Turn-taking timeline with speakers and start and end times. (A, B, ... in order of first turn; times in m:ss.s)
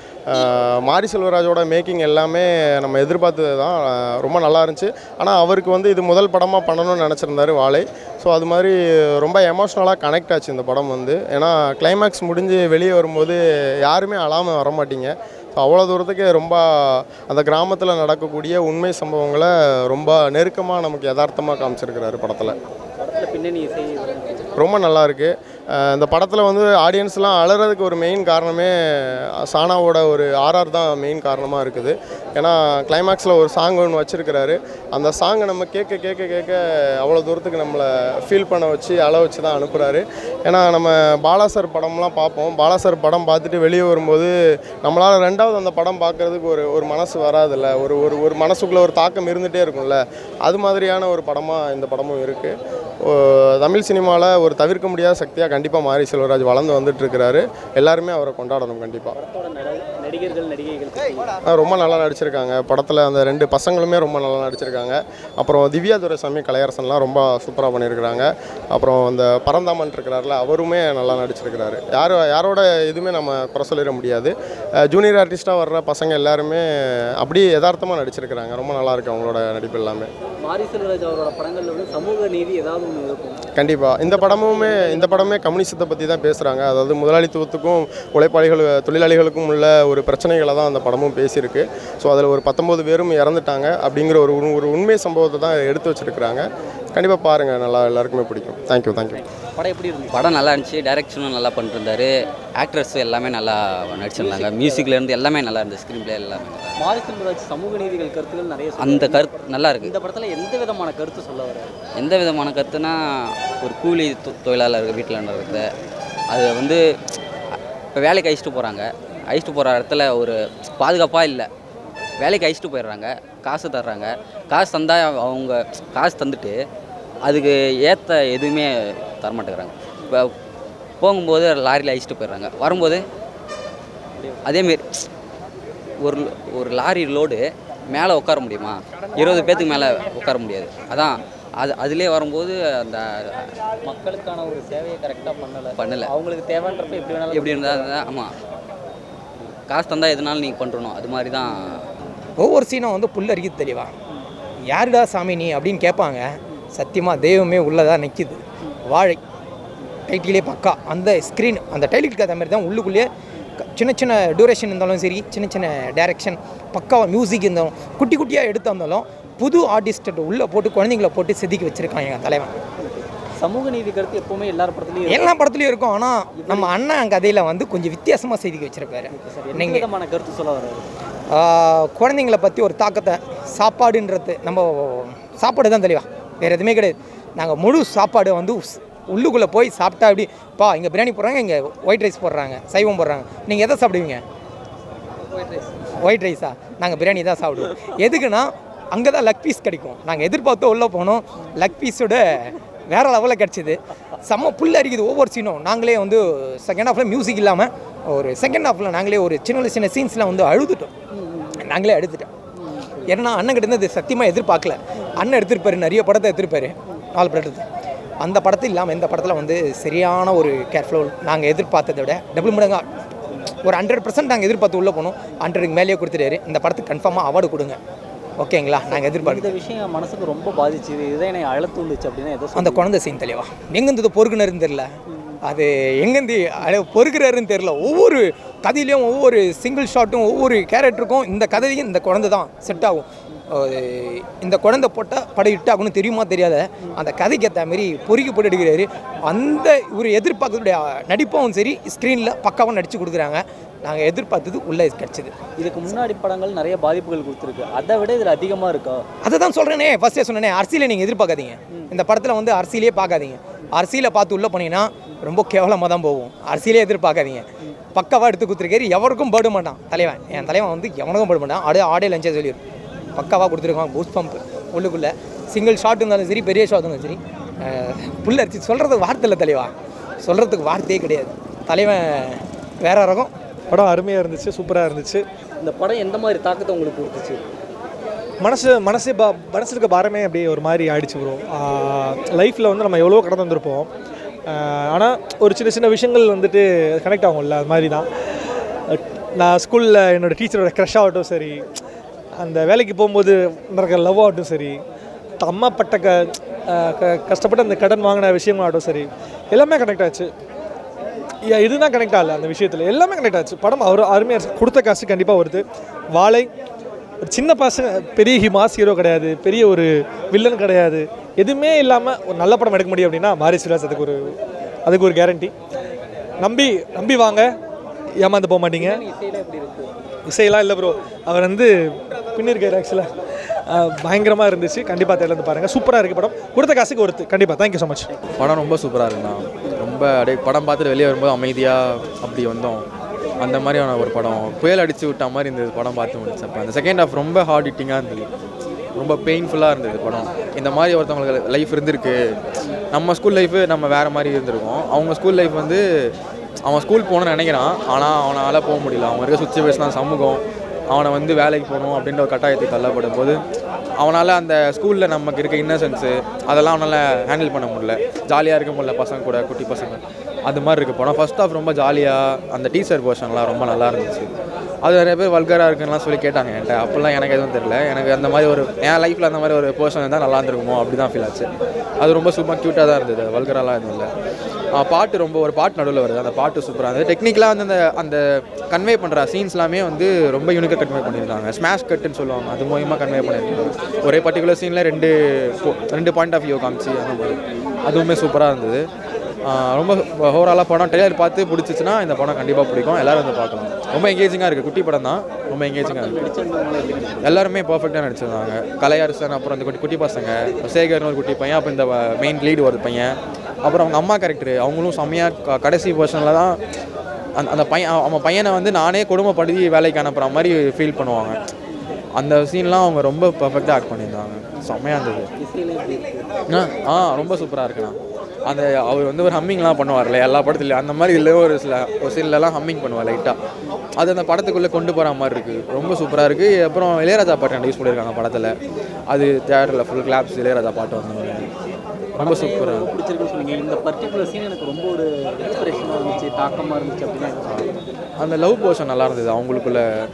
0:00.3-0:22.6 A
0:22.4-0:24.5 B
0:24.6-0:44.3 A
0:44.8-0:59.2 A
0:59.1-1:01.3 B
1:01.5-1:14.3 A
1:14.8-1:16.6 A
1:17.2-1:20.1 A
1:20.4-1:23.4 B
1:23.6-1:36.4 A
1:24.0-1:25.4 B
1:36.9-1:39.2 A
1:39.4-1:40.4 B
1:40.1-1:46.7 C
1:44.1-1:44.9 B
1:46.8-1:51.7 B
1:48.8-1:49.9 C
1:52.0-1:53.0 C
1:53.6-1:55.7 C
1:56.3-1:56.8 C
1:57.9-2:01.5 C
2:02.2-2:06.5 C
2:07.2-2:10.3 C
2:11.0-2:13.0 C
2:14.2-2:14.6 B
2:14.4-2:14.8 C
2:16.0-2:23.0 C
2:19.3-2:20.1 B
2:23.8-2:27.9 B
2:25.8-2:26.1 C
2:27.3-2:28.3 C
2:29.7-2:31.8 C
2:32.4-2:33.9 D
2:34.7-2:39.2 D
2:40.1-2:43.1 D
2:43.7-2:52.6 D
2:52.8-2:55.3 B
2:55.0-2:59.8 D
2:56.4-2:56.7 B
2:59.1-3:00.9 B
3:01.3-3:14.2 D
3:15.9-3:30.9 D
3:31.1-3:31.6 B
3:31.6-3:32.3 D
3:32.6-3:33.1 B
3:33.0-3:37.6 D
3:38.2-3:42.8 D
3:43.6-3:47.8 D
3:48.4-3:49.5 D
3:48.9-3:52.9 B
3:52.5-3:54.9 D
3:55.1-3:55.4 B
3:55.4-4:15.3 D
4:15.6-4:19.0 B
4:19.2-4:32.6 D
4:33.1-4:39.7 D
4:40.2-4:43.3 D
4:43.7-4:45.2 E
4:45.6-4:47.4 B
4:48.4-4:53.9 E
4:54.5-4:58.0 E
4:58.9-5:01.6 E
5:02.4-5:04.8 E
5:05.4-5:10.3 E
5:11.5-5:15.6 E
5:16.2-5:16.5 E
5:17.3-5:24.3 E
5:24.8-5:25.5 E
5:26.4-5:27.5 E
5:28.2-5:29.0 E
5:28.8-5:30.1 B
5:30.3-5:31.7 E
5:32.4-5:33.1 E
5:33.7-5:38.1 E
5:38.3-5:42.8 F
5:43.4-5:48.3 F
5:49.0-5:52.2 F
5:52.9-5:55.8 F
5:56.6-6:03.4 F
6:04.0-6:14.3 F
6:14.8-6:21.5 F
6:22.0-6:24.1 F
6:24.8-6:38.8 F
6:39.4-6:46.2 F
6:45.8-6:47.4 B
6:47.2-6:56.6 F
6:57.4-7:01.4 F
7:02.2-7:05.3 F
7:05.4-7:06.3 B
7:06.5-7:13.4 F
7:14.0-7:18.5 F
7:19.1-7:21.5 F
7:22.2-7:27.8 B
7:22.2-7:22.9 F
7:28.2-7:29.8 F